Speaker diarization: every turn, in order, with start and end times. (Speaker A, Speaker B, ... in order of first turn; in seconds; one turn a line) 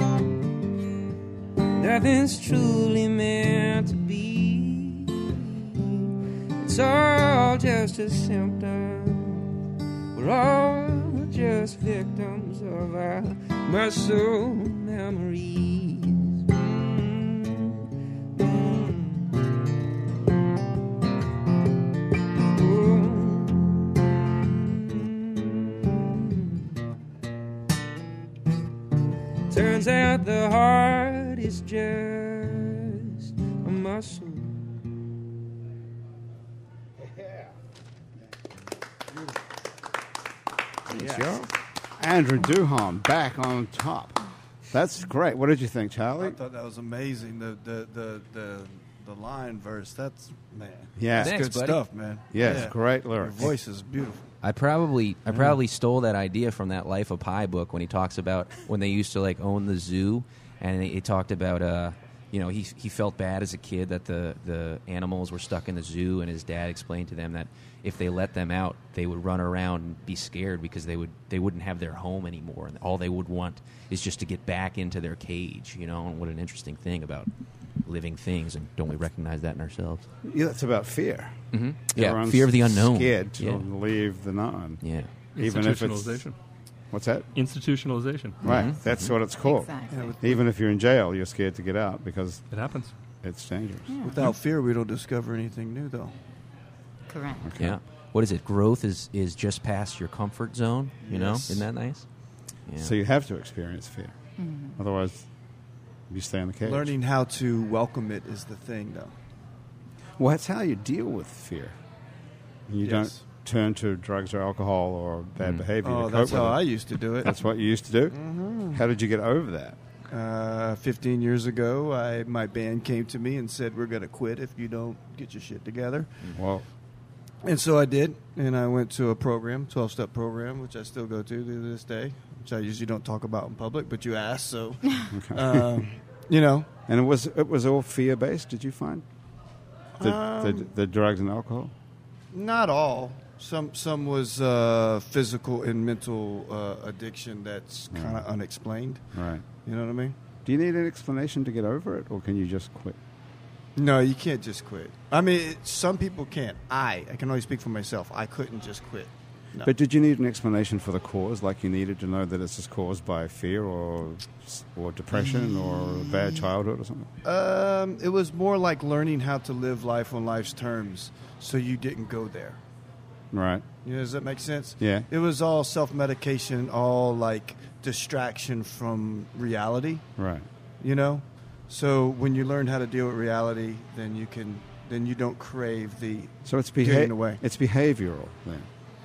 Speaker A: 1.8-9.5
Speaker A: 10.1-17.8
Speaker A: 18.4-19.3
Speaker A: 22.5-24.0
Speaker A: 24.5-26.5
Speaker A: 29.5-34.6
Speaker B: 40.9-41.3
Speaker A: 40.9-41.5
Speaker C: 42.0-44.2
Speaker C: 44.7-46.4
Speaker B: 46.2-54.3
Speaker C: 51.0-51.4
Speaker A: 51.1-51.8
Speaker C: 52.3-53.5
Speaker A: 54.4-77.3
Speaker A: 77.8-80.1
Speaker C: 80.2-84.8
Speaker A: 81.5-83.6
Speaker A: 84.8-85.1
Speaker D: 85.3-86.3
Speaker C: 85.4-86.2
Speaker C: 86.9-87.3
Speaker D: 87.3-88.4
Speaker A: 88.4-89.2
Speaker C: 88.4-92.4
Speaker E: 89.4-90.2
Speaker B: 89.9-90.4
Speaker D: 92.5-92.9
Speaker C: 93.2-93.9
Speaker E: 93.9-94.2
Speaker B: 94.0-96.1
Speaker E: 97.1-97.5
Speaker C: 97.4-97.8
Speaker A: 97.6-102.0
Speaker B: 101.0-101.7
Speaker A: 102.7-102.9
Speaker C: 102.8-104.1
Speaker E: 104.4-104.8
Speaker C: 104.8-105.3
Speaker C: 106.1-106.9
Speaker B: 106.6-109.1
Speaker C: 110.2-111.8
Speaker C: 112.7-118.2
Speaker B: 112.8-113.2
Speaker B: 115.8-117.3
Speaker B: 118.1-118.8
Speaker C: 118.7-119.8
Speaker B: 120.1-126.3
Speaker C: 126.3-126.6
Speaker B: 127.4-136.7
Speaker C: 135.1-135.8
Speaker C: 136.9-139.0
Speaker B: 140.0-140.7
Speaker C: 140.0-141.7
Speaker B: 142.3-149.0
Speaker C: 147.9-148.2
Speaker C: 149.1-149.4
Speaker B: 149.6-150.2
Speaker C: 150.4-153.0
Speaker B: 153.8-159.7
Speaker C: 159.6-167.1
Speaker B: 167.2-172.6
Speaker C: 173.3-173.6
Speaker B: 173.8-180.1
Speaker C: 174.8-175.1
Speaker C: 180.2-180.4
Speaker B: 180.8-187.4
Speaker C: 186.4-188.7